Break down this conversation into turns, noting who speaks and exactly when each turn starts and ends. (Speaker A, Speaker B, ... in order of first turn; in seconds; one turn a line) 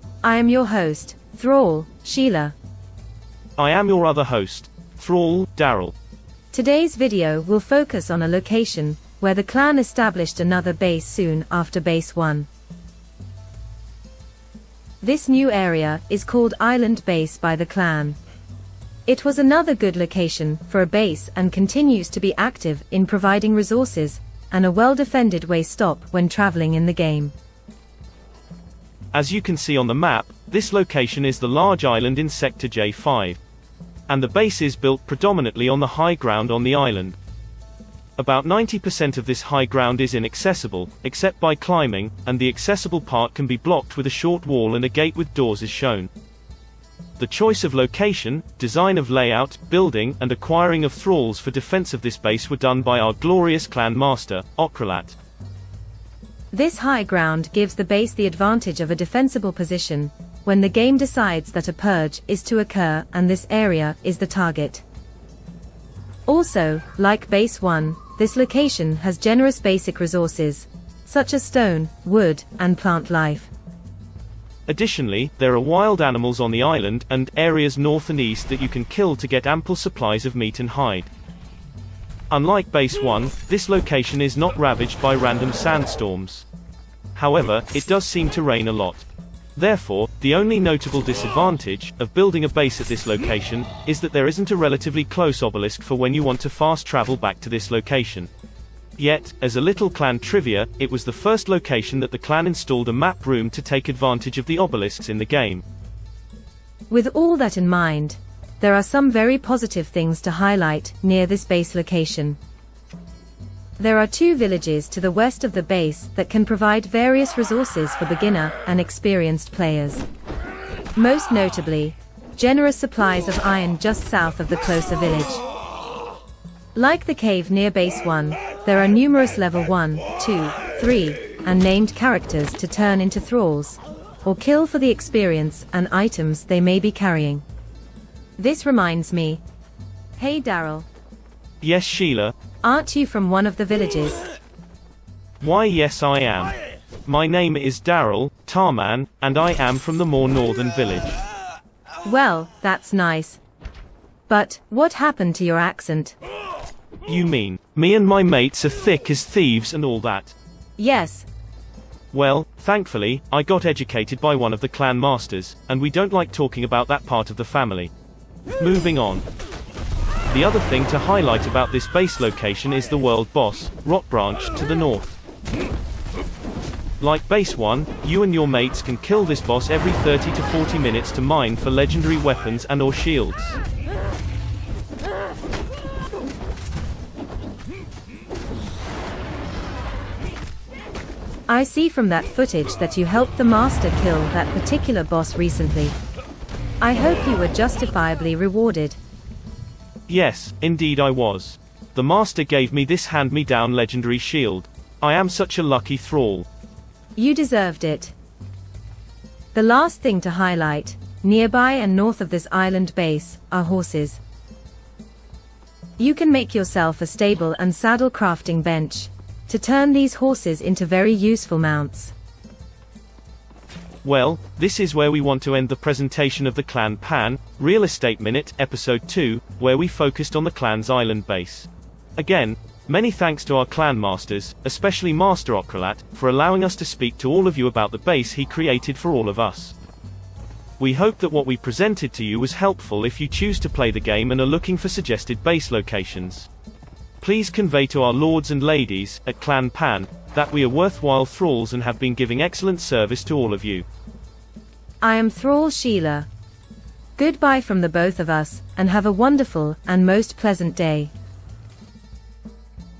Speaker A: 0.2-2.5
Speaker B: 3.6-5.9
Speaker A: 6.5-12.5
Speaker A: 15.0-18.2
Speaker A: 19.1-27.3
Speaker B: 29.1-33.4
Speaker B: 34.1-37.1
Speaker B: 38.2-46.1
Speaker B: 47.2-55.1
Speaker A: 56.5-64.8
Speaker A: 66.3-73.5
Speaker B: 74.7-81.1
Speaker B: 82.3-86.4
Speaker B: 87.1-98.3
Speaker B: 99.0-105.6
Speaker A: 106.9-112.4
Speaker A: 113.8-120.0
Speaker A: 120.9-125.4
Speaker A: 126.7-137.4
Speaker A: 138.4-139.4
Speaker A: 140.2-140.8
Speaker B: 141.6-142.3
Speaker A: 142.6-144.3
Speaker B: 145.4-151.2
Speaker A: 152.0-153.4
Speaker A: 154.3-156.2
Speaker B: 157.1-160.3
Speaker A: 160.8-161.3
Speaker B: 162.1-167.9
Speaker B: 168.6-169.2
Speaker B: 170.3-175.2
Speaker B: 177.0-183.6
Speaker A: 191.5-196.0
Speaker A: 196.8-199.0
Speaker B: 200.1-206.4
Speaker A: 207.2-208.1
Speaker A: 209.5-214.2
Speaker A: 216.0-222.1
Speaker B: 224.0-239.8
Speaker B: 240.8-246.5
Speaker B: 247.2-253.8
Speaker A: 255.0-256.3
Speaker A: 257.2-261.1